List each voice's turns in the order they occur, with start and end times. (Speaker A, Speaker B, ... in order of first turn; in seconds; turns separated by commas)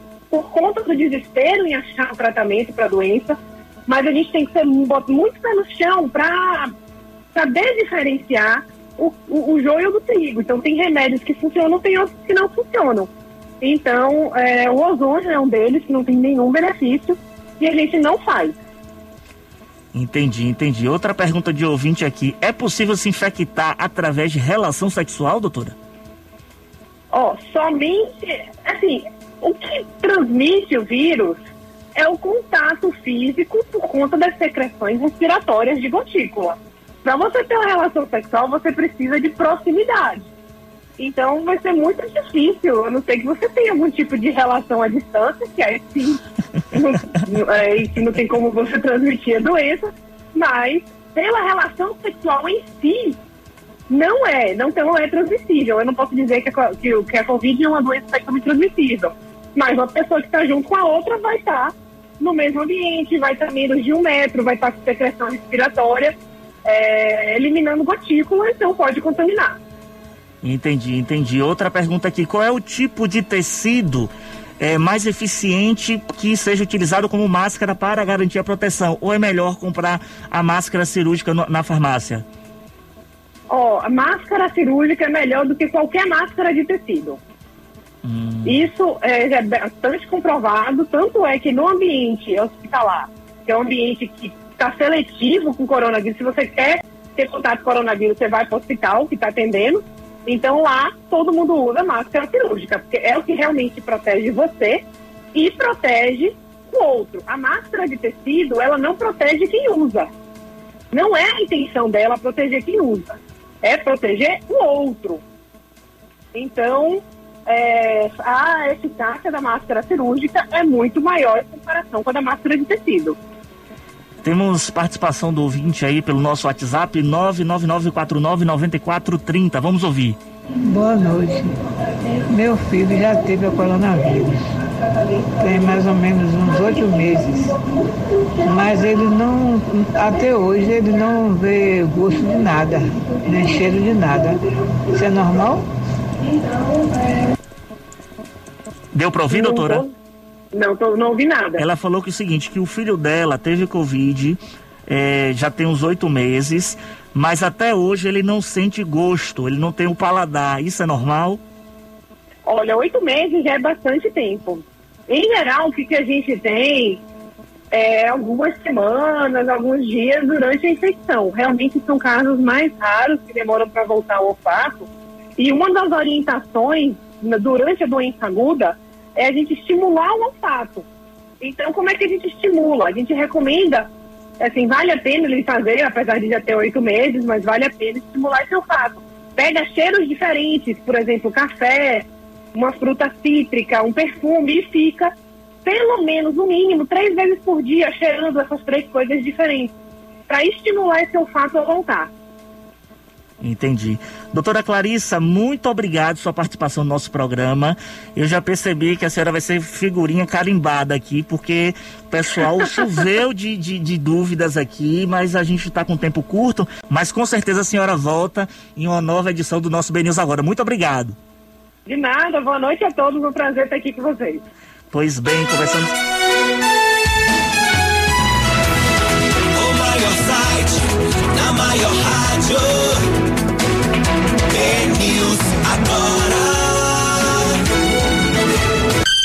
Speaker A: 0.3-3.4, Speaker A: 3.9-6.7, Speaker A: 7.3-13.1, Speaker A: 13.6-18.6, Speaker B: 19.9-25.8, Speaker A: 27.1-31.4, Speaker A: 31.9-40.3, Speaker A: 41.0-46.2, Speaker A: 46.7-53.2, Speaker A: 53.9-66.1, Speaker A: 66.6-69.6, Speaker B: 70.4-82.2, Speaker A: 83.5-87.2, Speaker B: 88.0-88.7, Speaker A: 88.4-110.1, Speaker A: 110.9-115.2, Speaker A: 116.3-123.2, Speaker B: 124.2-130.2, Speaker C: 130.6-131.5, Speaker C: 132.3-134.5, Speaker C: 135.4-137.6, Speaker C: 138.4-144.4, Speaker C: 144.9-145.7, Speaker B: 148.9-149.8, Speaker A: 149.3-149.9, Speaker A: 150.5-151.6, Speaker B: 151.6-161.4, Speaker A: 162.4-167.0, Speaker A: 167.7-174.9, Speaker A: 175.4-180.8, Speaker A: 181.4-183.9, Speaker A: 184.4-195.1, Speaker A: 195.6-199.7, Speaker A: 200.3-202.1, Speaker B: 203.4-221.2, Speaker A: 221.9-224.4, Speaker B: 224.9-225.9, Speaker D: 229.5-233.0, Speaker D: 234.5-237.5